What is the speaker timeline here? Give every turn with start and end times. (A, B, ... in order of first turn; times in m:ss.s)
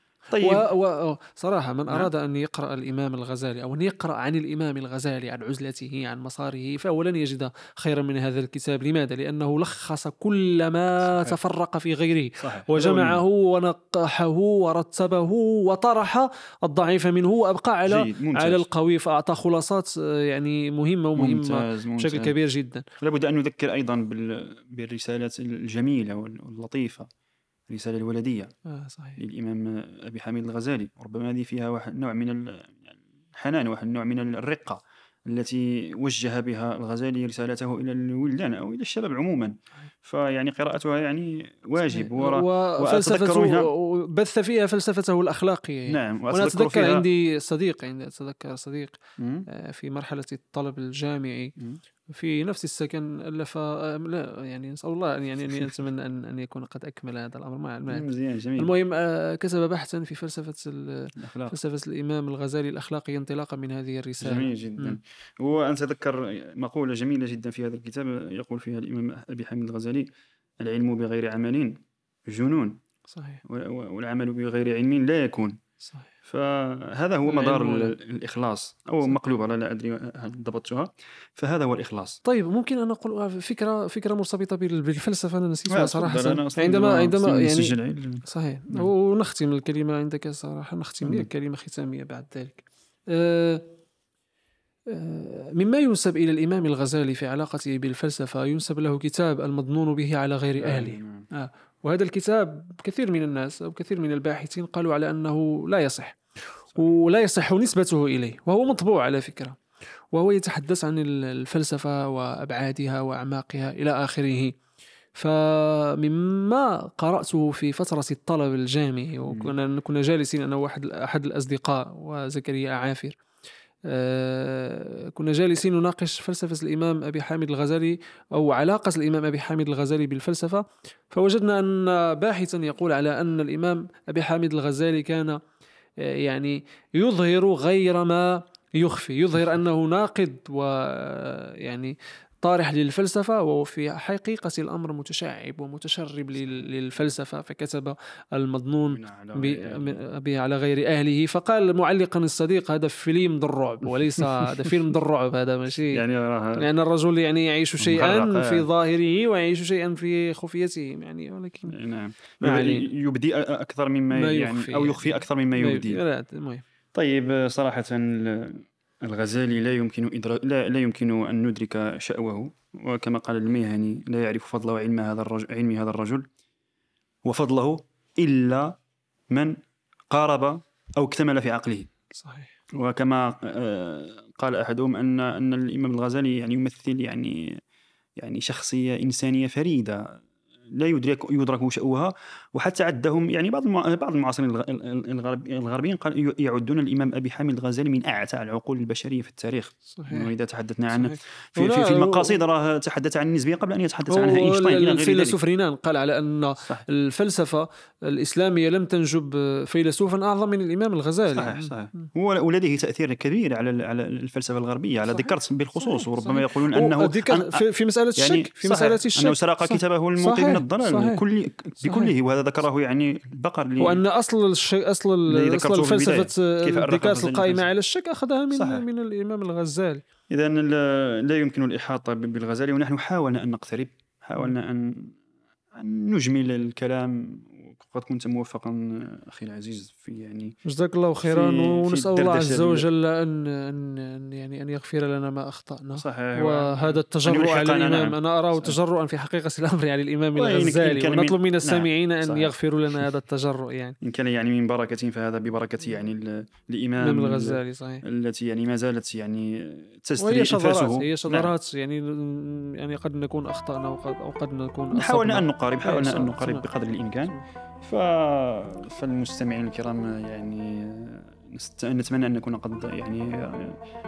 0:00.3-0:00.7 A
0:00.4-0:22.8 B
0:11.0-0:11.4 A
0:12.4-0:13.2 A
0:17.9-0:18.7 A
0:21.2-0:22.4 A
0:23.0-0:27.1 A
0:27.7-0:28.5 A
0:28.7-0:29.2 B
0:29.2-0:43.7 A
0:41.8-0:49.0 B
0:45.9-0:47.1 A
0:49.2-0:49.5 A
0:49.5-0:51.6 B
0:52.1-1:05.0 B
0:57.9-0:58.7 A
1:01.2-1:01.6 A
1:04.2-1:10.1 A
1:10.6-1:12.8 A
1:13.1-1:13.4 B
1:13.4-1:15.6 A
1:16.2-1:22.2 A
1:17.2-1:18.0 B
1:22.2-1:33.6 B
1:25.7-1:28.9 A
1:31.0-1:31.3 A
1:34.9-1:46.2 B
1:40.6-1:41.3 A
1:46.7-1:49.6 B
1:50.1-1:54.6 B
1:55.2-2:03.2 B
1:59.3-1:59.5 A
2:03.9-2:15.4 B
2:16.0-2:36.0 B
2:28.9-2:30.0 A
2:34.2-2:34.8 A
2:35.9-2:36.7 A
2:36.6-2:41.8 B
2:37.8-2:38.7 A
2:41.7-2:46.0 A
2:42.4-2:42.9 B
2:44.1-2:46.6 B
2:46.9-2:56.3 A
2:57.2-2:58.8 A
2:59.3-2:59.6 A
3:00.1-3:01.9 A
3:02.2-3:02.5 B
3:02.8-3:07.6 A
3:08.2-3:10.2 A
3:10.7-3:25.4 A
3:19.9-3:20.3 B
3:20.9-3:22.4 B
3:24.1-3:32.0 B
3:31.4-3:37.6 A
3:35.2-3:41.2 B
3:38.2-3:44.0 A
3:41.8-3:42.1 B
3:43.8-3:50.0 B
3:45.3-3:47.7 A
3:48.5-3:48.8 A
3:50.3-3:55.2 A
3:55.7-4:00.6 A
4:00.7-4:14.0 B
4:01.2-4:02.9 A
4:06.0-4:08.8 A
4:10.4-4:12.5 A
4:14.0-4:21.5 A
4:17.0-4:18.0 B
4:20.2-4:26.6 B
4:24.9-4:33.8 A